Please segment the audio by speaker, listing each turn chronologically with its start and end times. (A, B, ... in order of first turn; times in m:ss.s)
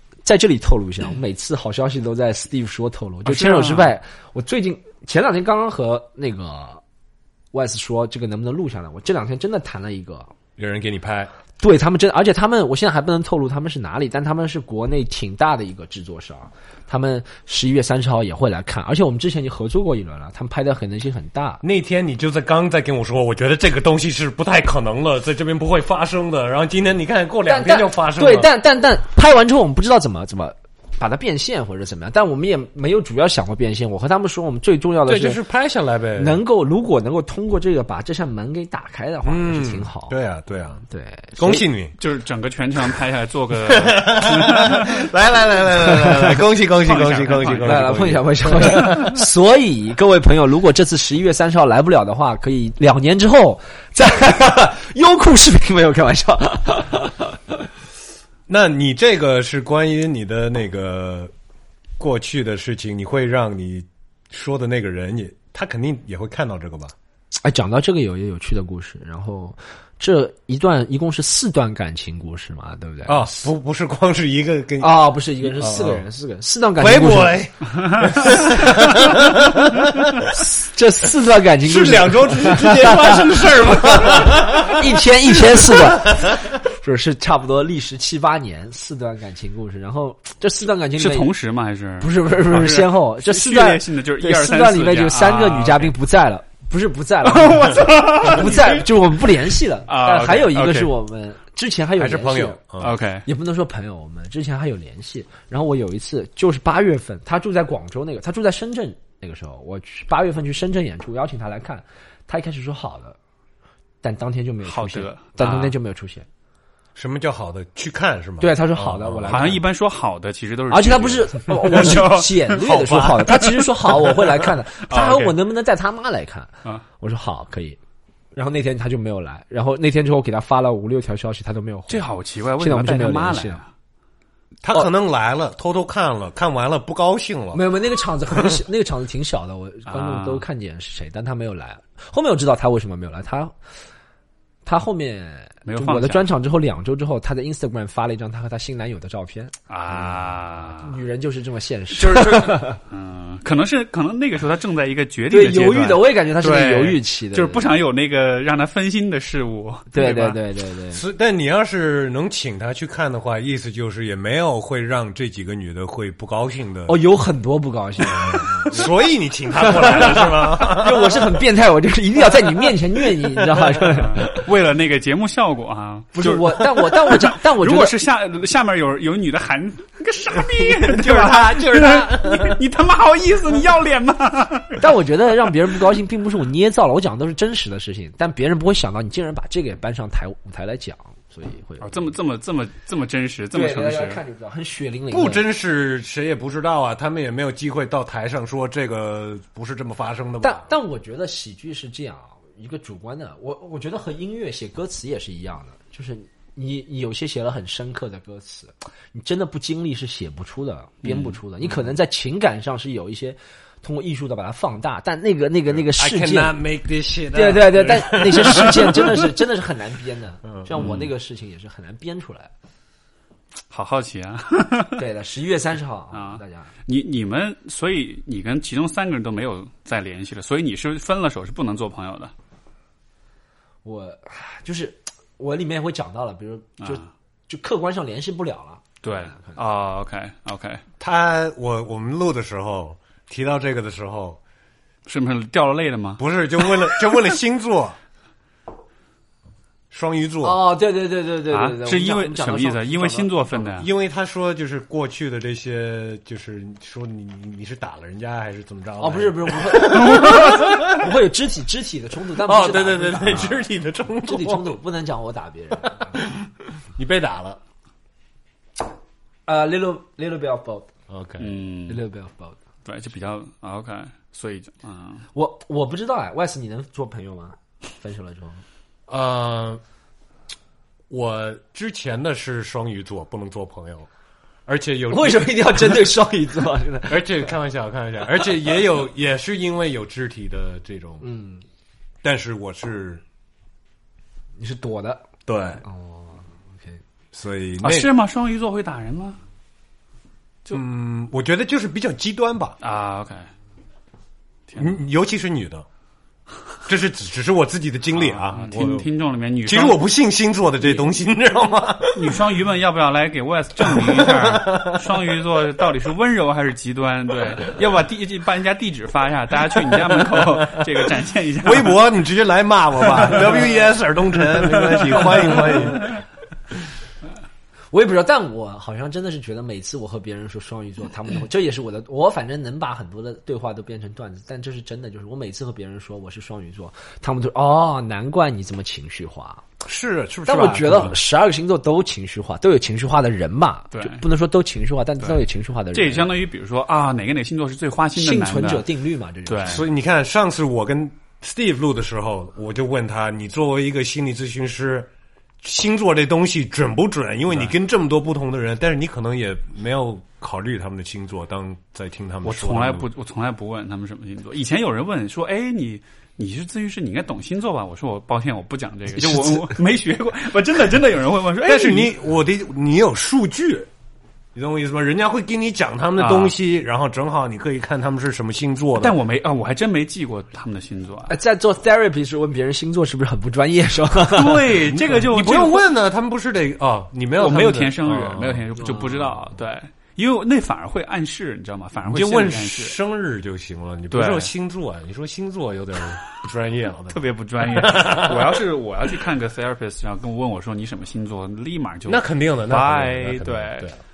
0:00.2-0:06.8 A
0:03.2-0:03.9 B
0:07.5-0:10.3 A
0:10.6-0:11.3 C
0:11.6-0:21.6 A
0:21.6-0:28.5 C
0:27.4-0:35.4 A
0:35.0-0:36.4 C
0:36.1-0:40.2 A
0:39.2-0:40.8 C
0:40.9-0:41.6 A
0:41.4-0:41.9 C
0:42.0-0:45.0 B
0:43.7-0:49.1 C
0:45.9-0:46.4 A
0:46.8-0:48.0 B
0:47.5-0:57.7 A
0:48.8-0:49.1 B
0:58.5-1:01.3 C
1:02.0-1:06.9 C
1:07.4-1:13.4 A
1:13.0-1:16.0 C
1:14.8-1:17.4 A
1:16.8-1:20.4 C
1:20.2-1:31.3 A
1:21.6-1:26.4 C
1:31.0-1:35.9 B
1:32.0-1:42.6 A
1:37.2-1:38.8 B
1:38.3-1:38.8 C
1:39.8-1:40.9 B
1:42.0-1:43.0 C
1:42.8-1:43.3 B
1:43.2-1:53.2 A
1:54.0-1:56.3 A
1:54.6-1:55.8 B
1:57.0-1:59.5 C
1:58.4-1:59.6 A
1:59.2-2:02.6 B
2:00.7-2:07.8 A
2:02.5-2:03.4 C
2:04.8-2:05.4 B
2:08.3-2:12.0 A
2:11.9-2:13.7 B
2:12.6-2:13.6 A
2:14.6-2:17.6 C
2:17.5-2:23.5 A
2:19.9-2:20.4 B
2:24.6-2:30.1 A
2:25.6-2:26.3 B
2:29.7-2:31.0 B
2:30.7-2:32.8 A
2:31.9-2:40.4 B
2:35.3-2:37.7 A
2:39.9-2:41.0 A
2:40.9-2:47.0 C
2:46.9-2:48.9 A
2:48.0-2:51.3 C
2:49.6-2:54.5 A
2:53.9-3:04.8 B
2:56.1-2:57.9 A
3:00.4-3:02.6 C
3:04.8-3:12.2 A
3:11.8-3:14.2 B
3:13.5-3:15.5 A
3:15.1-3:20.6 C
3:20.4-3:36.6 A
3:31.0-3:31.4 B
3:35.7-3:39.2 C
3:37.3-3:42.5 A
3:40.4-3:40.9 C
3:40.8-3:41.1 B
3:43.7-3:45.0 B
3:45.0-3:46.7 A
3:46.1-3:52.3 B
3:53.8-3:59.6 A
3:56.8-3:57.1 B
3:59.0-4:00.8 B
4:01.0-4:04.4 C
4:05.0-4:07.2 B
4:06.2-4:08.0 C
4:09.9-4:10.6 C
4:10.4-4:13.8 A
4:11.5-4:13.9 B
4:13.8-4:21.1 C
4:19.0-4:23.7 A
4:20.0-4:20.5 B
4:22.4-4:24.7 C
4:24.2-4:26.2 A
4:25.8-4:27.6 C
4:29.5-4:30.9 A
4:31.1-4:31.5 C
4:31.4-4:32.0 B
4:31.9-4:32.6 A
4:32.8-4:35.3 B
4:35.3-4:38.6 A
4:39.1-4:39.8 C
4:41.1-4:44.1 C
4:44.6-4:46.0 C
4:45.1-4:47.5 A
4:47.1-4:51.2 C
4:51.2-4:51.6 A
4:52.2-4:53.2 C
4:54.6-4:55.3 A
4:55.5-4:55.8 C
4:55.8-4:57.0 A
4:57.3-4:58.1 C
4:57.8-4:59.4 B
5:00.7-5:02.8 C
5:02.8-5:03.5 B
5:04.7-5:05.0 B
5:04.8-5:05.8 C
5:06.8-5:09.1 C
5:08.1-5:10.0 B
5:09.6-5:12.4 C
5:12.1-5:22.0 B
5:13.8-5:15.2 C
5:20.1-5:21.0 C
5:21.6-5:26.2 C
5:24.9-5:25.5 B
5:27.9-5:39.6 A
5:39.8-5:41.2 C
5:40.5-5:46.3 A
5:43.9-5:44.2 B
5:45.9-5:48.8 B
5:48.1-5:49.9 A
5:49.4-5:49.8 B
5:49.6-5:55.1 C
5:55.6-6:03.0 C
6:02.4-6:12.1 B
6:09.3-6:09.6 A
6:11.6-6:13.9 C
6:14.5-6:19.2 C
6:16.2-6:16.6 B
6:19.0-6:21.4 B
6:21.3-6:24.7 A
6:24.3-6:25.9 B
6:24.8-6:28.7 C
6:27.4-6:33.0 B
6:28.8-6:29.1 A
6:32.1-6:38.6 C
6:34.1-6:34.5 B
6:37.1-6:43.9 B
6:42.1-6:44.0 C